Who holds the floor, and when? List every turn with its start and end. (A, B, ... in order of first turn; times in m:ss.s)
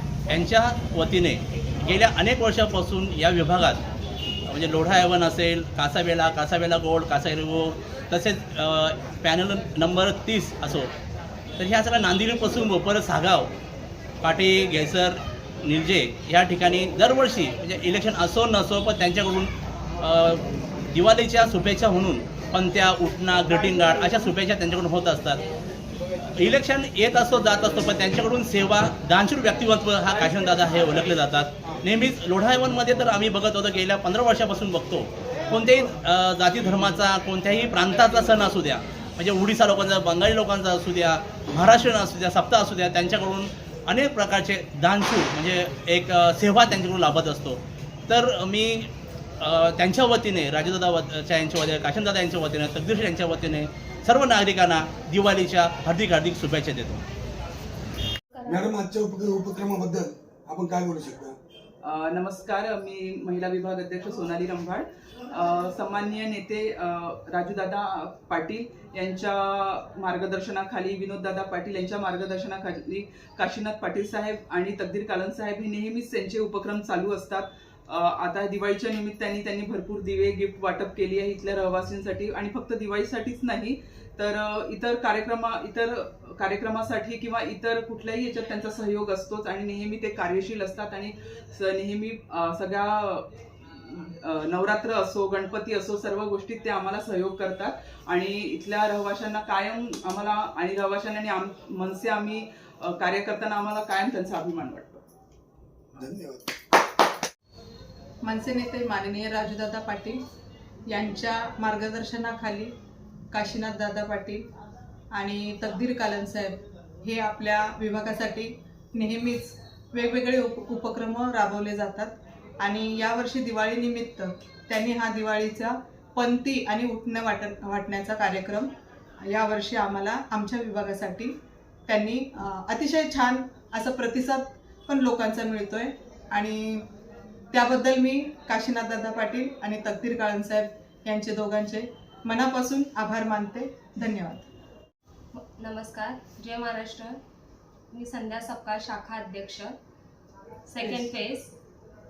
0:00.3-0:03.8 A
0:04.5-0:10.9 A
0:11.6-0:13.5 A
0:14.2-0:25.5 A
0:26.4-0:57.0 A
0:58.4-0:58.7 B
0:58.5-1:01.4 C
1:01.8-1:45.0 D
1:46.0-1:46.5 C
1:48.2-1:50.2 E
1:50.9-1:52.7 E
1:53.3-1:54.5 E
1:55.1-2:16.9 E
2:17.5-2:24.5 E
2:25.3-2:27.2 B
2:27.9-2:29.8 B
2:30.7-2:31.6 B
2:30.8-2:31.1 E